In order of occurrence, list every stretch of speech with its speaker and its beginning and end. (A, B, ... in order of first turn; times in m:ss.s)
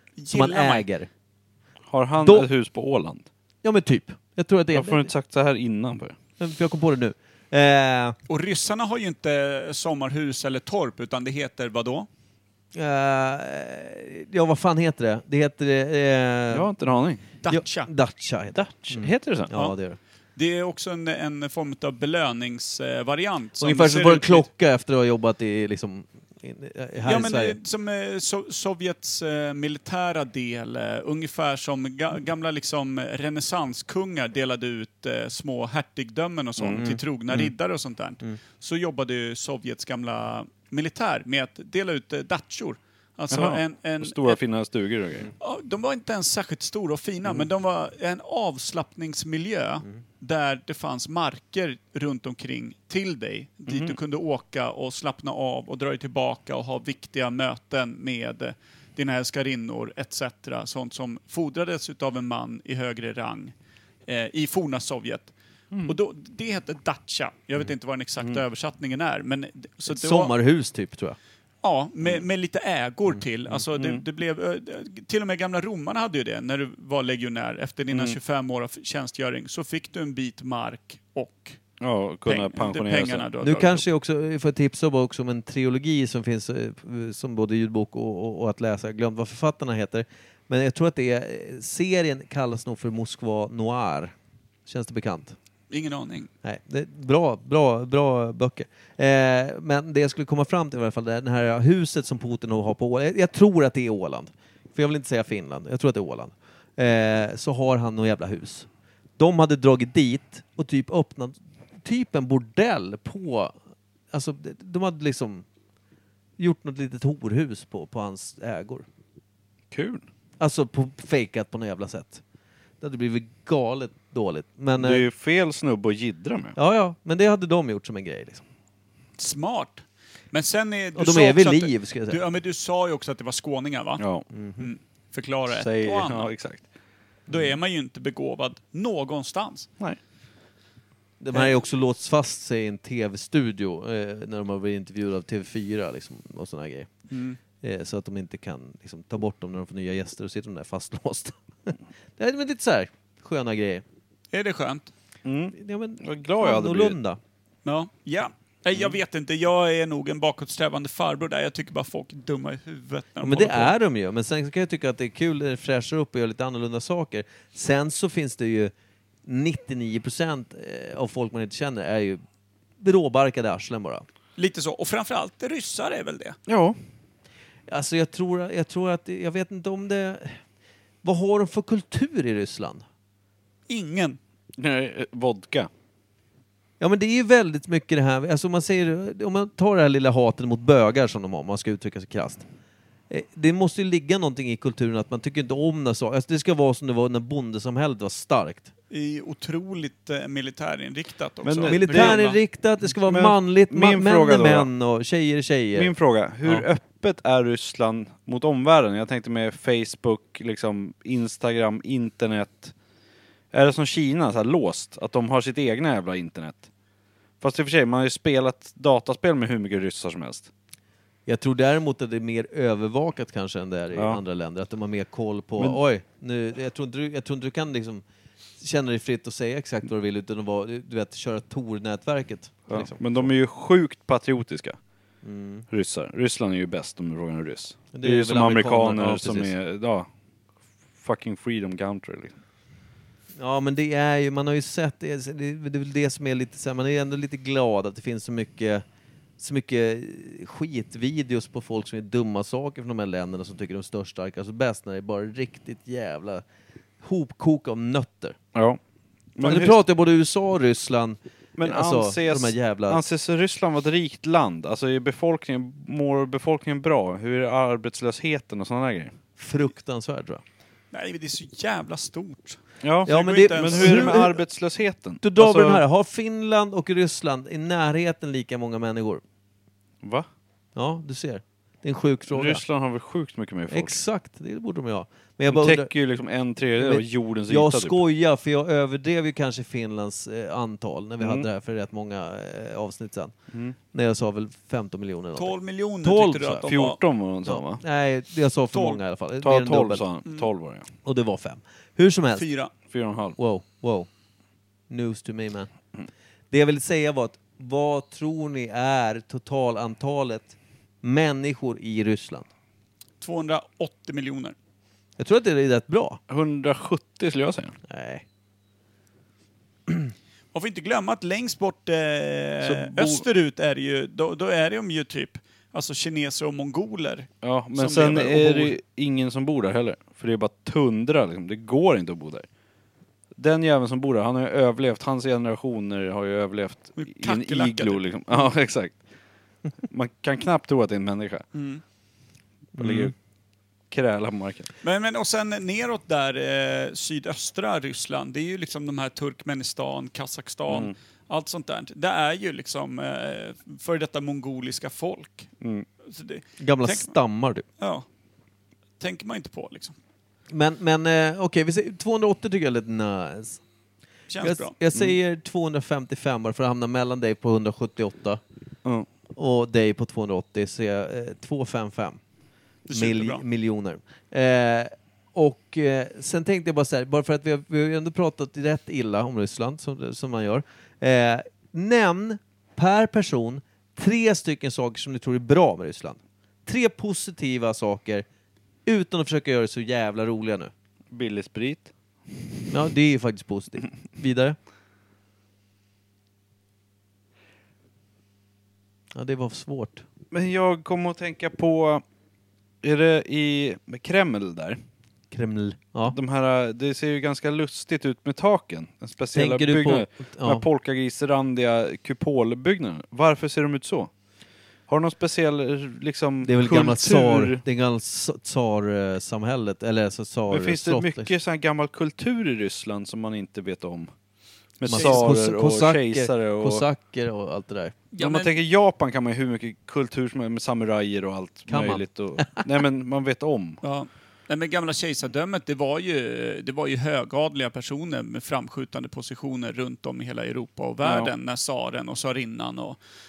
0:00.2-0:00.8 A
0:00.3-0:01.1 B
0:01.9-0:03.3 C
0:02.2-0:02.5 B
0:03.6-0:05.1 B
0:04.7-0:06.2 C
0:06.4-0:08.2 B
0:08.3-0:12.1 A
0:12.7-0:16.7 B
0:16.5-0:17.2 C
0:17.4-0:17.9 A
0:17.5-0:20.0 B
0:18.7-0:19.5 C
0:20.4-0:24.5 A
0:23.6-0:27.6 B
0:27.0-0:44.4 A
0:36.6-0:36.8 C
0:36.8-0:37.5 B
0:43.3-0:45.3 C
0:45.4-1:03.5 A
0:53.7-0:54.0 C
1:04.0-1:05.3 A
1:05.8-1:10.3 A
1:09.8-1:11.2 B
1:11.6-1:21.6 A
1:13.8-1:14.0 C
1:17.9-1:18.2 C
1:21.8-1:23.2 C
1:22.2-1:23.8 A
1:23.4-1:34.1 B
1:34.6-1:35.4 B
1:35.7-1:36.3 A
1:36.4-1:53.5 B
1:54.1-1:55.4 B
1:56.4-1:58.8 B
1:59.7-2:00.0 C
2:00.4-2:02.2 B
2:02.8-2:05.0 B
2:04.8-2:06.5 C
2:06.6-2:08.4 B
2:09.2-2:14.0 A
2:11.0-2:12.2 B
2:14.0-2:14.2 C
2:14.3-2:14.7 B
2:14.6-2:16.3 A
2:15.5-2:16.6 C
2:17.3-2:19.7 A
2:21.2-2:26.9 B
2:27.1-2:27.4 A
2:27.6-2:33.8 B
2:34.3-2:34.9 A
2:35.2-2:37.0 C
2:35.5-2:37.2 B
2:37.6-2:43.7 A
2:43.2-2:48.7 B
2:49.2-2:52.2 B
2:52.8-2:54.0 B
2:54.4-2:56.4 A
2:56.5-2:56.8 C
2:57.7-3:00.4 B
3:01.0-3:02.8 B
3:03.7-3:04.2 A
3:04.6-3:05.7 C
3:06.8-3:12.4 B
3:13.1-3:18.7 B
3:18.9-3:22.4 A
3:21.4-3:22.2 C
3:21.7-3:25.9 B
3:22.9-3:24.7 C
3:25.8-3:32.7 C
3:33.5-3:36.7 C
3:37.4-3:40.5 C
3:41.2-3:48.0 B
3:43.9-3:44.2 C
3:48.6-3:53.3 B
3:52.7-3:54.8 C
3:55.2-3:55.6 B
3:55.7-4:00.1 C
3:57.9-3:59.5 B
4:01.0-4:02.3 C
4:03.4-4:08.8 B
4:09.4-4:16.4 B
4:17.0-4:18.4 B
4:18.5-4:18.8 C
4:19.4-4:19.8 C
4:19.4-4:23.0 B
4:21.6-4:29.1 C
4:29.4-4:30.4 B
4:30.9-4:34.2 A
4:32.8-4:35.8 C
4:33.1-4:34.4 B
4:35.2-4:39.2 B
4:40.0-4:40.3 C
4:40.8-4:42.6 B
4:42.3-4:44.0 C
4:43.7-4:45.9 B
4:45.5-4:48.0 C
4:46.8-4:53.3 B
4:51.2-4:51.4 C
4:53.9-4:56.7 B
4:55.4-4:57.0 A
4:56.7-4:57.8 C
4:57.4-5:00.0 B
4:58.7-4:59.0 A
4:59.4-5:00.9 C
5:01.0-5:02.5 B
5:02.4-5:02.7 A
5:02.9-5:03.4 C
5:03.4-5:04.1 B
5:04.9-5:05.7 B
5:06.5-5:12.5 B
5:13.2-5:14.5 A
5:15.2-5:16.2 B
5:16.3-5:17.8 C
5:17.9-5:18.2 B
5:20.5-5:28.7 A
5:22.6-5:23.2 C
5:27.4-5:32.5 C
5:33.4-5:39.0 C
5:37.0-5:38.0 A
5:39.9-5:41.4 C
5:41.5-5:41.8 A
5:42.8-5:43.1 B
5:42.8-5:43.1 C
5:43.9-5:44.7 C
5:44.8-5:55.5 A
5:50.7-5:50.9 C
5:55.6-5:55.8 C
5:56.0-5:57.1 A
5:56.6-5:57.6 B
5:57.8-5:58.0 A
5:59.0-6:00.0 A
6:00.5-6:03.6 B
6:04.3-6:04.7 A
6:04.4-6:08.4 B
6:09.4-6:12.2 B
6:12.8-6:13.4 A
6:12.9-6:28.2 B
6:28.8-6:30.7 B
6:31.1-6:31.9 C
6:32.7-6:34.6 B
6:39.1-6:40.0 B
6:40.3-6:42.0 C
6:42.8-6:44.8 C
6:45.3-6:46.2 B
6:46.1-6:54.1 C
6:49.3-6:50.6 B
6:54.9-6:57.6 C
6:56.4-7:01.3 B
7:00.5-7:04.1 C
7:04.8-7:06.8 C
7:04.8-7:07.9 B
7:04.9-7:05.4 A
7:08.1-7:08.6 A
7:08.2-7:13.8 C
7:11.7-7:12.6 B
7:13.8-7:23.0 A
7:21.0-7:21.3 C